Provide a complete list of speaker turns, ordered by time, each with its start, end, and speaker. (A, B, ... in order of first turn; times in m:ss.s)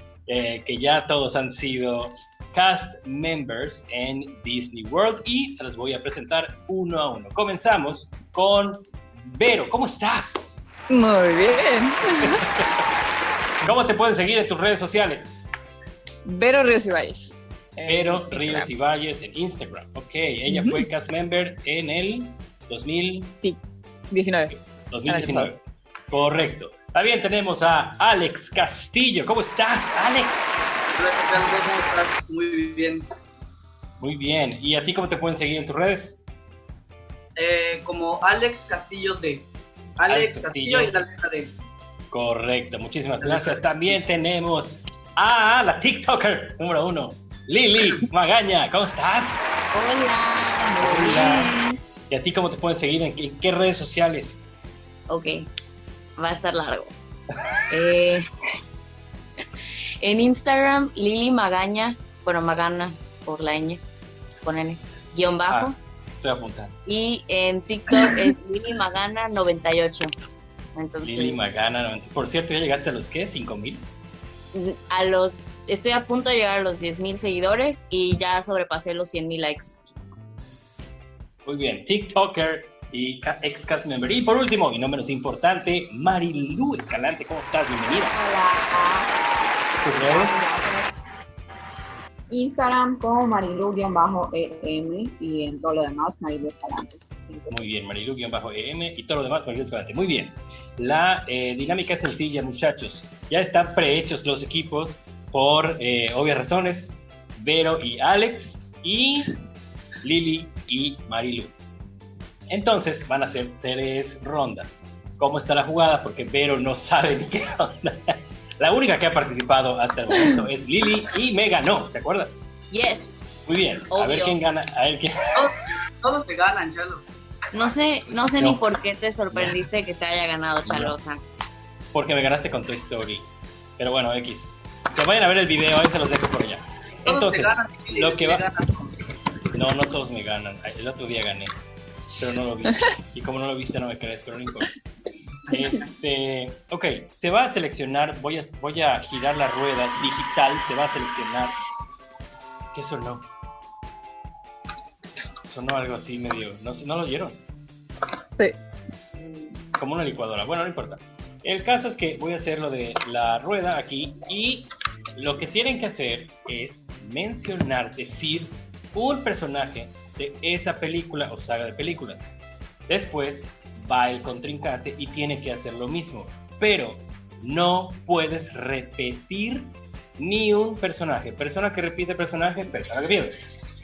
0:00.3-0:10.6 A
0:10.9-0:12.4 B
0:12.2-0:12.9 A
0:13.6-0:15.5 A
0:16.3-0:18.7 B
0:17.9-0:23.4 A
0:20.5-0:20.8 B
0:24.1-0:25.5 B
0:24.5-0:30.5 A
0:31.0-0:33.1 C
0:34.0-0:36.2 A
0:37.4-0:41.5 C
0:40.1-0:41.0 A
0:42.1-0:49.4 A
0:43.2-0:43.7 C
0:49.7-0:51.8 D
0:50.7-0:51.5 A
0:52.1-0:54.4 A
0:55.1-0:55.5 D
0:56.2-0:56.9 D
0:57.7-0:58.3 D
1:00.0-1:03.8 D
1:04.4-1:05.8 D
1:05.5-1:06.7 A
1:06.9-1:10.1 D
1:10.8-1:11.4 D
1:11.0-1:13.9 A
1:14.5-1:19.8 D
1:21.4-1:28.2 A
1:28.1-1:29.1 E
1:29.8-1:30.5 A
1:30.0-1:31.0 E
1:32.3-1:37.6 E
1:37.5-1:49.3 A
1:50.0-1:51.5 A
1:52.5-2:02.4 A
2:02.7-2:04.4 D
2:03.5-2:05.4 A
2:05.3-2:07.0 C
2:07.5-2:11.2 D
2:08.4-2:08.6 A
2:09.3-2:09.6 A
2:10.6-2:11.0 A
2:11.9-2:13.3 A
2:13.8-2:18.5 A
2:17.1-2:19.0 C
2:19.5-2:21.5 A
2:22.2-2:24.7 A
2:25.5-2:31.6 A
2:32.7-2:33.3 A
2:35.4-2:37.4 A
2:39.8-3:03.4 A